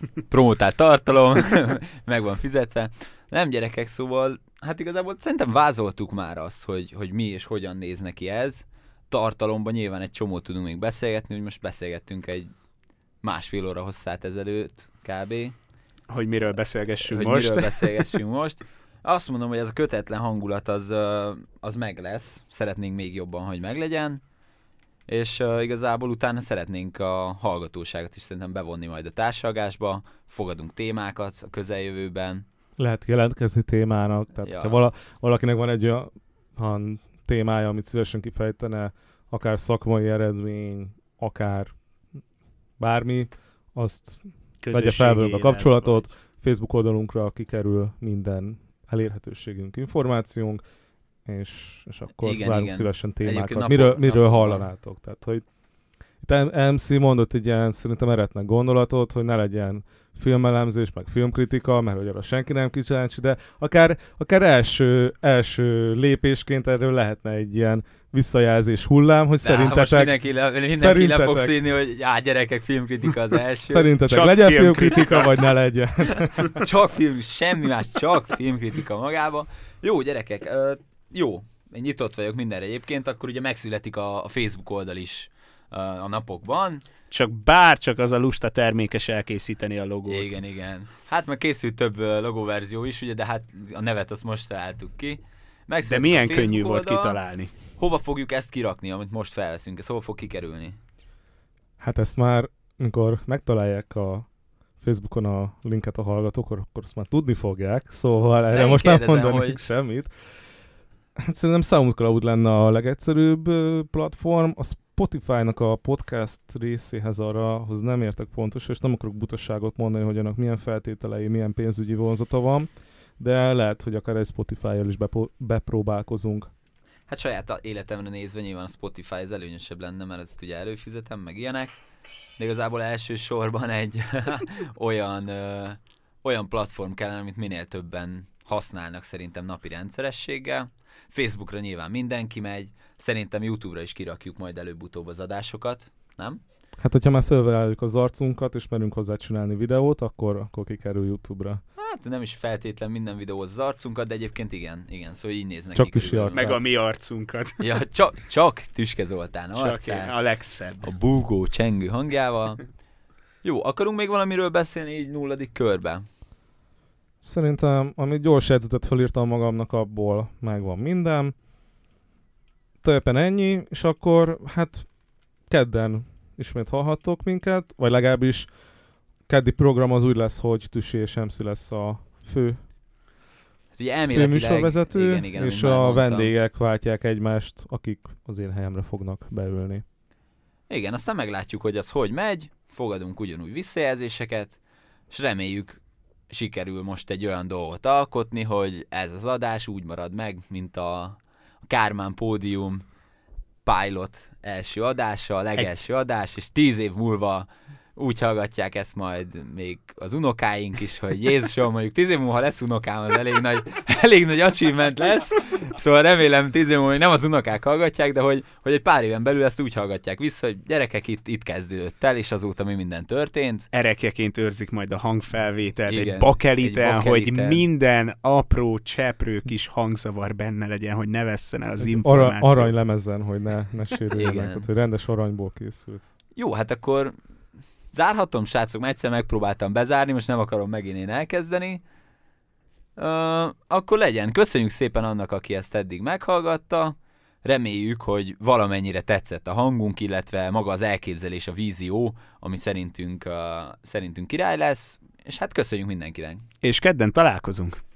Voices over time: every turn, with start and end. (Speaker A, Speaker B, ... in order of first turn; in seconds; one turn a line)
Speaker A: 0.3-12.5
Speaker A: 13.2-15.5
Speaker B: 16.1-18.0
Speaker A: 17.1-24.2
Speaker A: 25.1-32.4
Speaker C: 32.8-41.8
Speaker A: 34.4-34.8
Speaker C: 42.8-50.6
Speaker B: 44.6-46.1
Speaker C: 51.3-55.4
Speaker A: 52.2-54.6
Speaker C: 56.2-71.6
Speaker A: 69.4-74.0
Speaker C: 73.7-76.6
Speaker B: 74.0-75.4
Speaker A: 76.6-86.8
Speaker B: 87.1-90.3
Speaker A: 90.1-97.2
Speaker B: 95.8-97.5
Speaker A: 97.8-100.8
Speaker C: 101.8-104.3
Speaker C: 104.8-110.1
Speaker A: 108.5-109.6
Speaker C: 111.2-122.7
Speaker C: 123.2-126.5
Speaker A: 127.1-131.8
Speaker A: 132.4-146.4
Speaker C: 146.8-151.6
Speaker A: 151.8-156.5
Speaker C: 155.7-156.6
Speaker B: 156.3-157.6
Speaker A: 157.6-160.2
Speaker B: 159.5-160.8
Speaker A: 160.8-162.7
Speaker A: 163.4-166.0
Speaker C: 167.2-171.3
Speaker C: 172.8-174.9
Speaker C: 175.5-178.5
Speaker C: 179.3-182.6
Speaker A: 183.8-186.3
Speaker C: 184.1-189.8
Speaker A: 190.7-194.6
Speaker A: 195.1-202.8
Speaker A: 203.7-223.7
Speaker B: 223.7-232.7
Speaker A: 225.9-227.7
Speaker C: 231.8-236.1
Speaker A: 234.2-234.7
Speaker A: 236.4-237.1
Speaker A: 237.9-241.8
Speaker A: 243.0-256.4
Speaker B: 256.6-257.8